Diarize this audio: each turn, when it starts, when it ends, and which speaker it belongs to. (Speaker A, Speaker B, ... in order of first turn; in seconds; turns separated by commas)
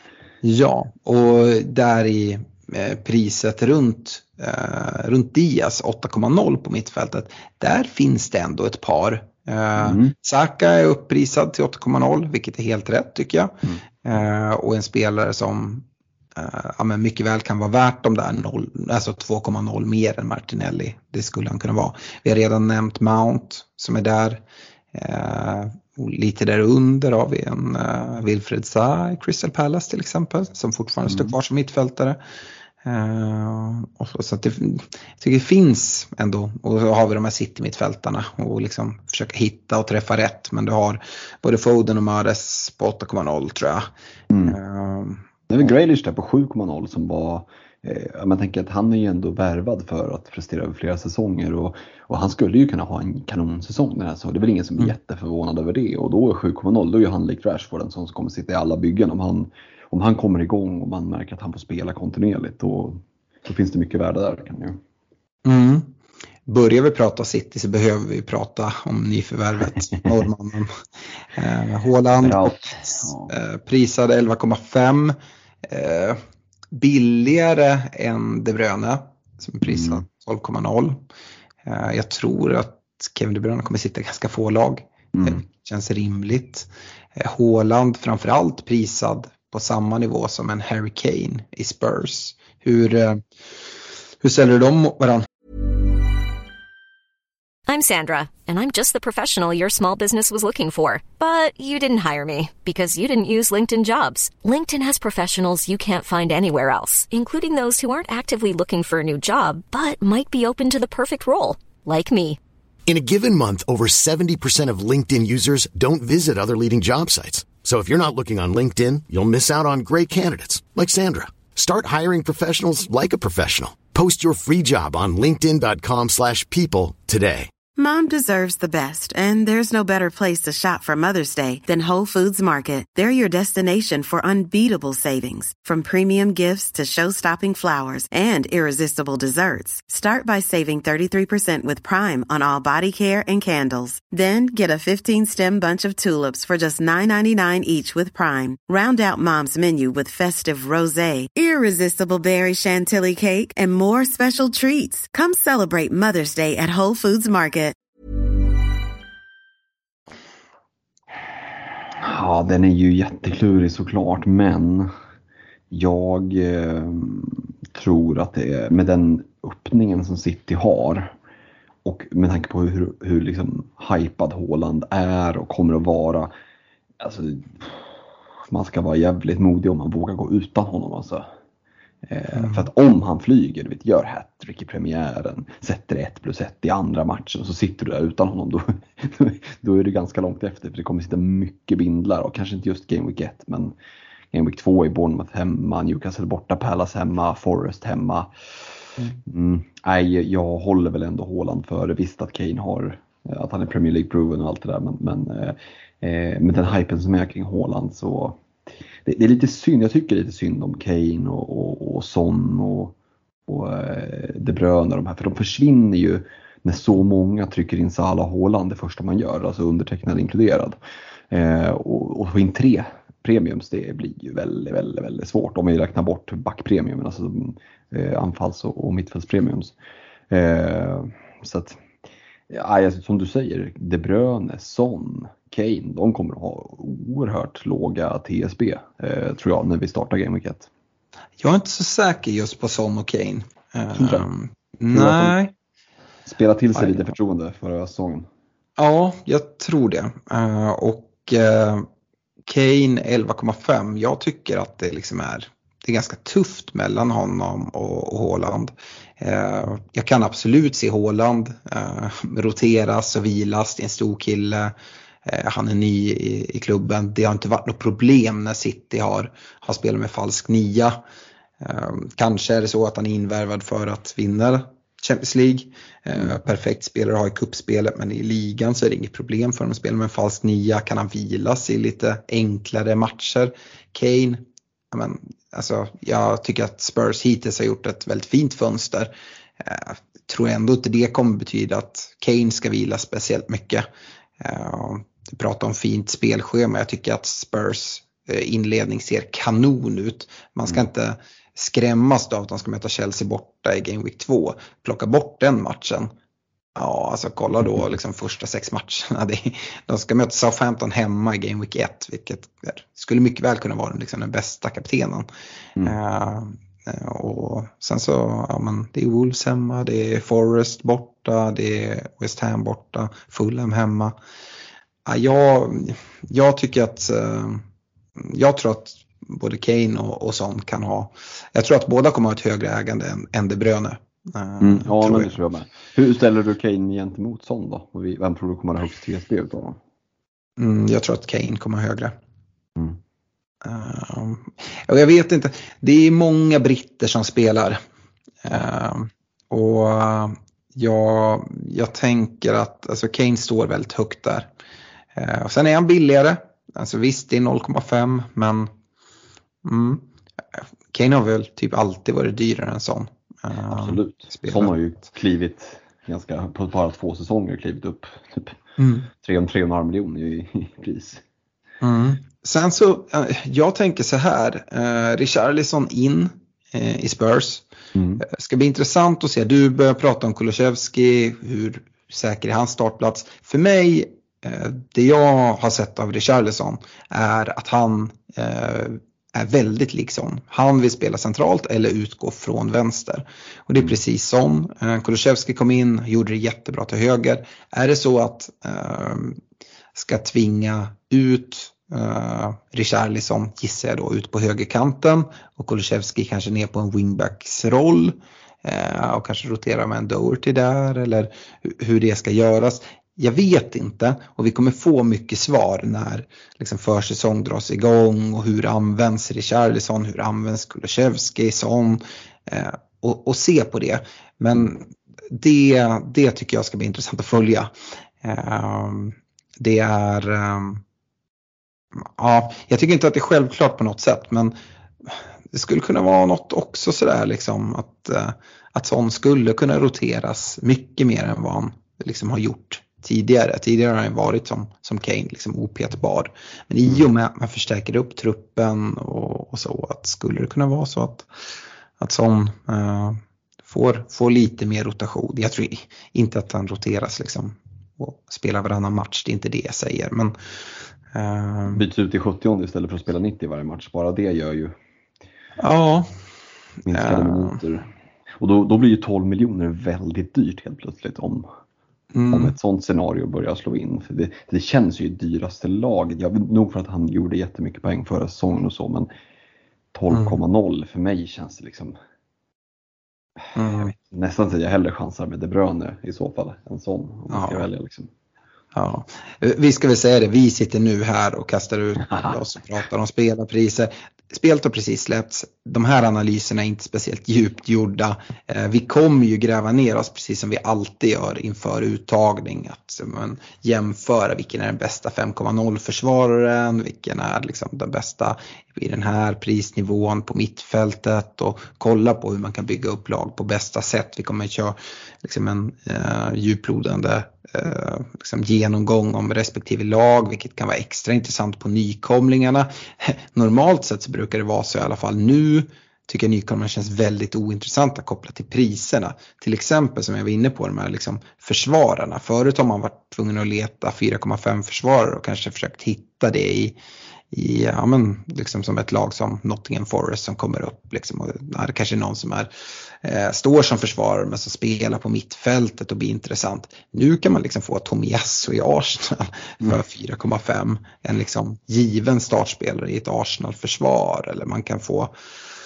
Speaker A: 0.4-24.4, Speaker B: 9.8-10.1, Speaker A: 24.9-32.2, Speaker B: 31.1-31.3, Speaker A: 32.8-43.9, Speaker B: 44.3-44.6, Speaker A: 44.5-45.2, Speaker B: 45.5-64.8, Speaker A: 65.4-65.9, Speaker A: 66.5-70.7, Speaker A: 71.3-75.1, Speaker B: 72.2-73.3, Speaker A: 75.7-76.2, Speaker A: 76.7-81.0, Speaker B: 79.6-80.0, Speaker A: 81.7-93.2, Speaker B: 85.1-85.4, Speaker A: 94.2-95.3, Speaker C: 97.7-112.4, Speaker D: 112.9-127.5, Speaker E: 127.8-157.8, Speaker B: 161.9-164.9, Speaker B: 165.7-171.1, Speaker B: 171.8-176.3, Speaker B: 177.0-181.2, Speaker B: 182.0-193.7, Speaker A: 182.3-182.7, Speaker B: 194.3-198.7, Speaker B: 199.2-208.5, Speaker B: 209.0-212.9, Speaker B: 213.5-220.8, Speaker B: 221.3-229.7, Speaker B: 230.3-231.8, Speaker B: 232.5-240.7, Speaker A: 241.4-245.5, Speaker B: 243.9-244.3, Speaker B: 244.9-245.4, Speaker B: 246.2-248.3, Speaker A: 246.8-247.1, Speaker A: 248.8-251.9, Speaker A: 252.4-264.7, Speaker A: 265.2-271.0, Speaker A: 271.6-293.9, Speaker A: 294.4-306.1, Speaker A: 306.8-315.2, Speaker A: 315.8-324.1, Speaker A: 325.1-327.6, Speaker A: 328.2-335.3, Speaker B: 334.6-339.8, Speaker A: 340.6-342.1, Speaker A: 343.6-347.8, Speaker A: 348.4-354.5, Speaker A: 355.1-358.7, Speaker A: 359.6-360.1, Speaker A: 360.9-364.7, Speaker B: 363.7-368.6, Speaker A: 368.8-369.1, Speaker B: 369.1-371.2, Speaker A: 371.8-377.6, Speaker B: 377.9-378.2, Speaker A: 378.2-399.4, Speaker A: 399.9-427.7, Speaker A: 428.2-430.8, Speaker A: 431.9-434.5, Speaker A: 435.1-451.3, Speaker A: 452.0-460.3, Speaker A: 461.1-461.8, Speaker B: 461.7-464.7, Speaker A: 465.6-466.1, Speaker B: 466.8-467.9, Speaker A: 466.9-467.6, Speaker B: 468.4-471.4, Speaker A: 472.1-472.5, Speaker B: 472.3-479.1, Speaker B: 479.9-481.9, Speaker A: 480.1-480.4, Speaker B: 483.4-488.1, Speaker A: 483.6-483.9, Speaker A: 487.3-487.7, Speaker A: 488.7-536.8, Speaker A: 537.3-542.5, Speaker A: 543.0-555.1